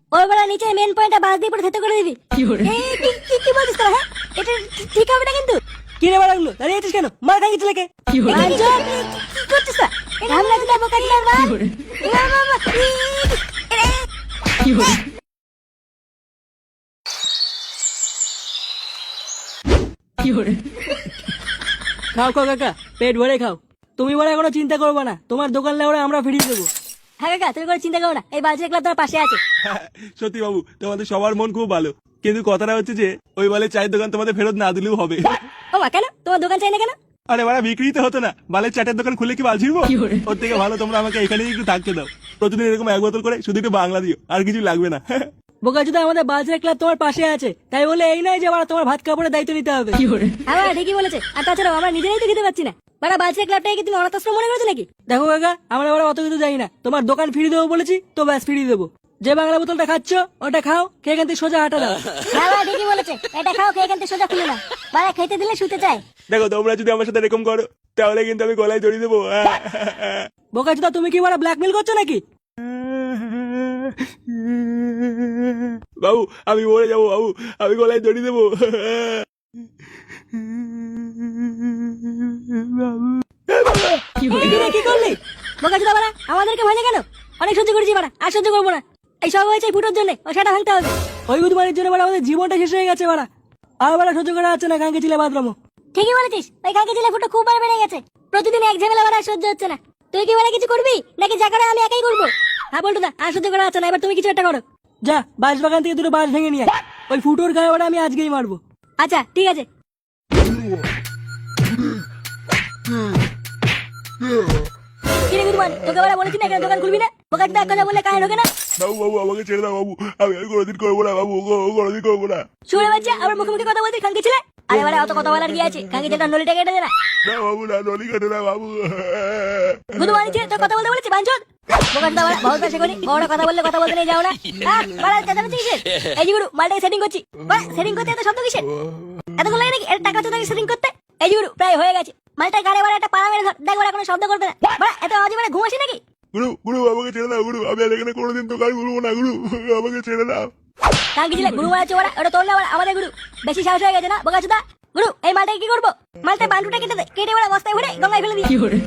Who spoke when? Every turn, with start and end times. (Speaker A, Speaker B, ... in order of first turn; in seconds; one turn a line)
Speaker A: 0.1-5.6
Speaker B: 6.0-7.9
Speaker A: 8.2-14.0
Speaker A: 14.6-14.9
Speaker B: 22.1-26.7
Speaker A: 27.2-29.4
Speaker C: 29.6-35.3
Speaker A: 35.7-37.0
Speaker C: 37.3-45.0
Speaker B: 45.6-50.1
Speaker A: 50.5-54.9
Speaker B: 55.1-62.0
Speaker A: 62.3-66.0
Speaker C: 66.3-70.2
Speaker B: 70.5-72.2
Speaker C: 72.8-73.4
Speaker C: 76.0-79.2
Speaker C: 82.5-82.9
Speaker C: 83.5-84.0
Speaker A: 84.2-84.7
Speaker B: 84.4-85.2
Speaker A: 85.6-90.9
Speaker B: 91.3-93.3
Speaker B: 93.8-95.5
Speaker A: 95.9-104.6
Speaker B: 105.0-108.6
Speaker A: 109.0-109.7
Speaker A: 115.2-118.5
Speaker C: 118.8-122.4
Speaker A: 122.7-126.9
Speaker C: 127.2-129.8
Speaker A: 129.9-138.7
Speaker A: 139.3-146.0
Speaker C: 146.3-150.5
Speaker A: 151.2-158.6